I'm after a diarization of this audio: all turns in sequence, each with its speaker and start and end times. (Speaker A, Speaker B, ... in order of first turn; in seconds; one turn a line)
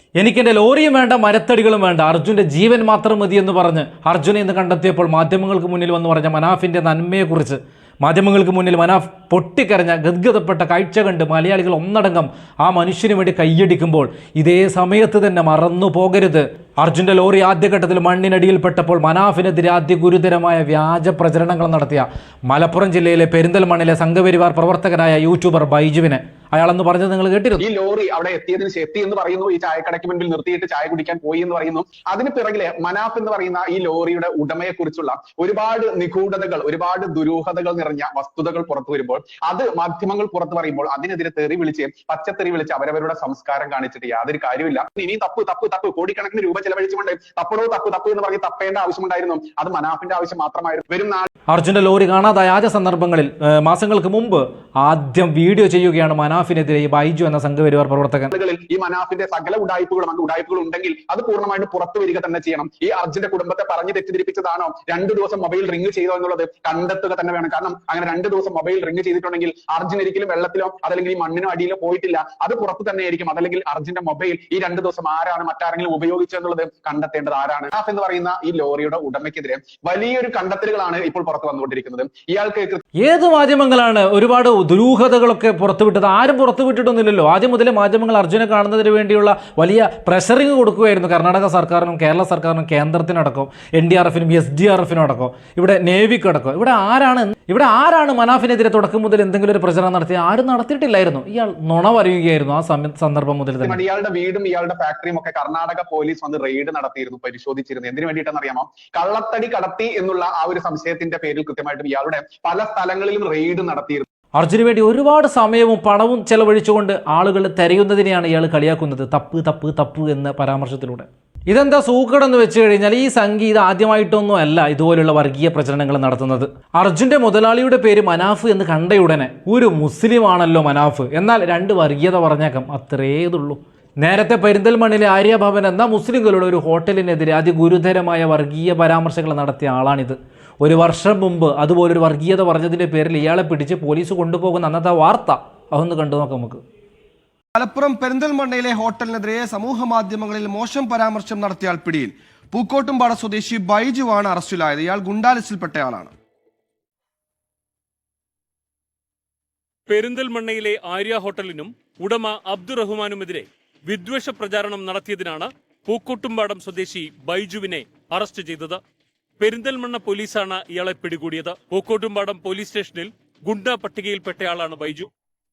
Speaker A: 0.2-27.6
Speaker B: 27.6-51.3
Speaker A: 51.5-58.3
Speaker B: 58.3-82.8
Speaker A: 83.0-103.8
Speaker B: 103.6-114.0
Speaker A: 114.4-146.6
Speaker C: 147.6-156.1
Speaker D: 159.9-168.8
Speaker D: 169.4-175.1